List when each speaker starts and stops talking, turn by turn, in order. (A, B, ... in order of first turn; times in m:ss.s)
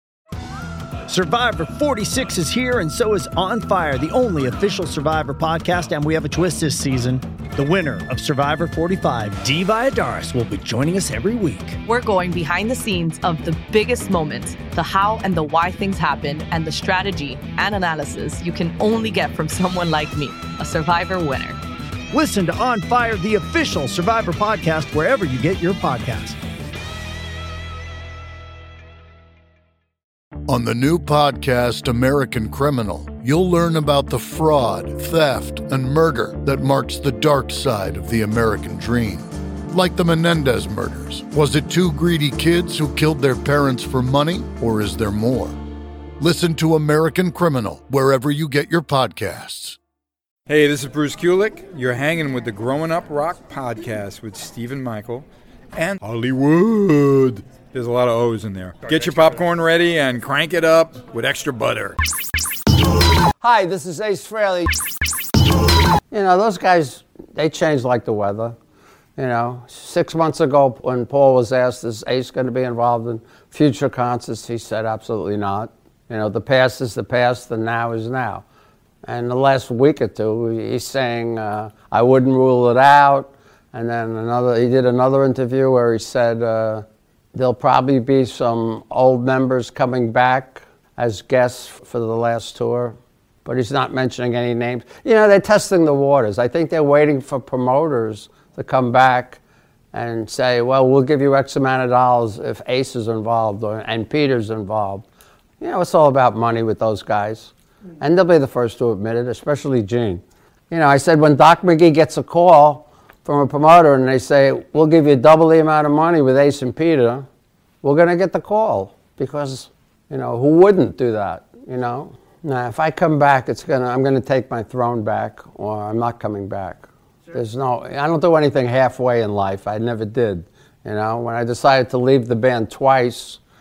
0:01.1-0:11.8 A
0:11.8-0:21.6 B
0:22.1-0:26.4 A
0:30.5-0:45.6 C
0:46.2-0:49.8 C
0:50.5-1:02.0 D
1:03.4-1:04.7 E
1:06.1-1:08.6 E
1:09.2-1:18.4 E
1:19.0-1:39.4 E
1:39.9-1:45.1 E
1:45.6-1:57.3 E
1:57.8-2:13.4 E